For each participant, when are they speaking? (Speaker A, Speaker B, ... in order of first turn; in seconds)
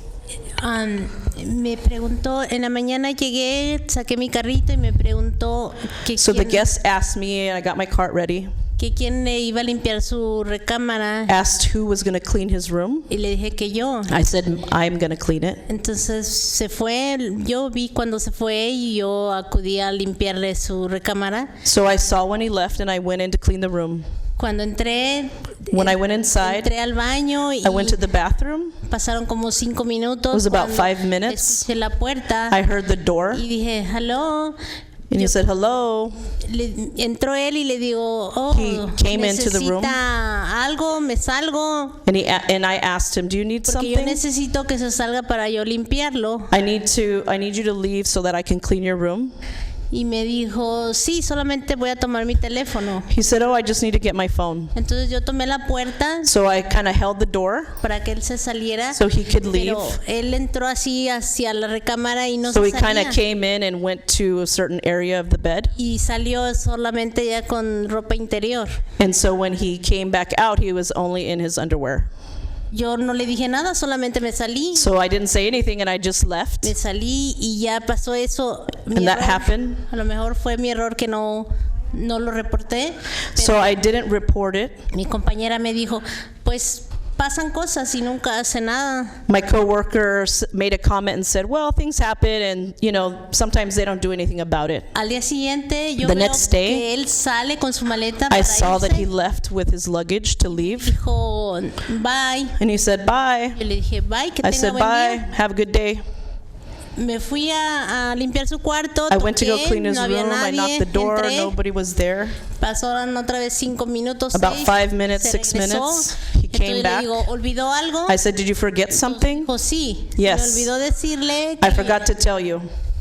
Speaker A: 0.6-6.7, 8.8-11.3, 13.1-14.2, 15.7-21.6, 24.4-28.0, 28.8-32.6, 33.3-34.6, 35.1-35.4, 36.4-42.0, 43.6-46.5, 49.9-53.1, 54.7-56.3, 57.8-63.2, 65.7-68.8, 72.7-74.9, 76.6-83.7, 84.9-89.2, 94.9-99.1, 100.5-102.6, 103.5-105.3, 107.0-111.6, 112.5-118.2, 119.0-122.1
Speaker B: 6.1-8.5, 11.3-13.1, 14.1-15.6, 21.6-24.0, 25.7-26.7, 27.6-28.8, 30.3-31.7, 32.5-33.5, 35.1-36.1, 38.5-40.0, 42.0-44.2, 46.5-49.3, 53.1-54.7, 56.2-57.7, 58.9-60.0, 62.5-65.7, 69.0-72.1, 74.7-76.7, 78.9-79.8, 83.3-84.8, 89.3-94.9, 96.0-96.8, 98.3-101.0, 102.5-103.6, 104.4-106.0, 109.1-112.4, 114.3-117.2, 118.1-119.5, 120.1-120.7, 121.6-122.7